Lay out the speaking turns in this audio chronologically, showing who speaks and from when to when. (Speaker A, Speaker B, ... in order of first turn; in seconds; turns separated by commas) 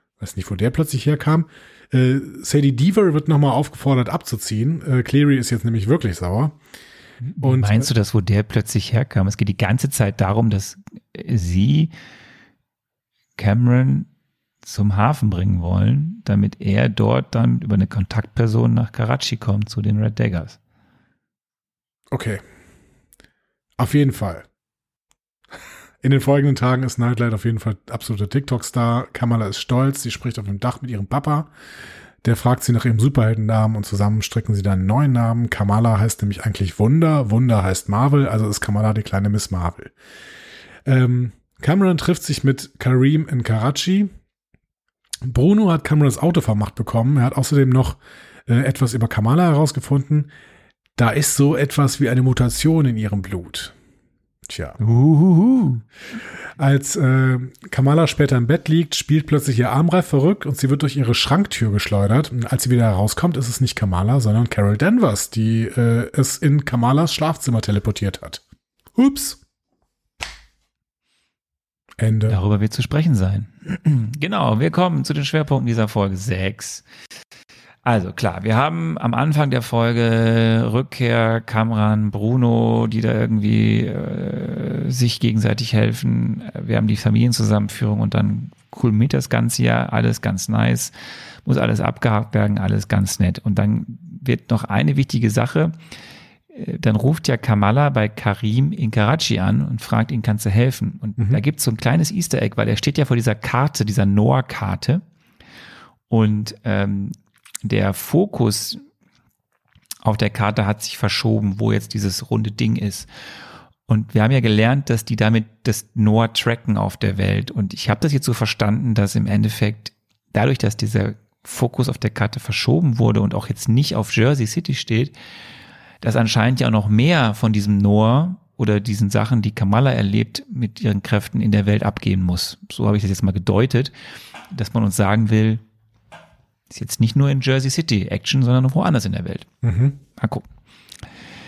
Speaker A: 0.2-6.6, Speaker B: 7.4-11.9, Speaker A: 7.4-7.9, Speaker B: 13.4-14.1, Speaker B: 14.6-20.6, Speaker A: 22.1-22.4, Speaker A: 23.8-24.5, Speaker A: 26.0-31.5, Speaker A: 32.2-39.9, Speaker A: 40.9-44.1, Speaker A: 45.2-50.3, Speaker A: 51.0-53.7, Speaker A: 54.5-54.8, Speaker B: 54.8-55.8, Speaker A: 56.6-68.4, Speaker A: 68.9-69.4, Speaker A: 72.0-72.4, Speaker B: 72.3-76.8, Speaker B: 77.8-90.9, Speaker B: 91.4-95.8, Speaker B: 96.5-105.0, Speaker B: 106.1-108.8, Speaker B: 110.0-113.1, Speaker B: 113.9-125.1, Speaker B: 126.0-133.9, Speaker B: 134.5-135.6, Speaker B: 136.7-139.5, Speaker A: 139.6-140.0, Speaker B: 140.2-140.4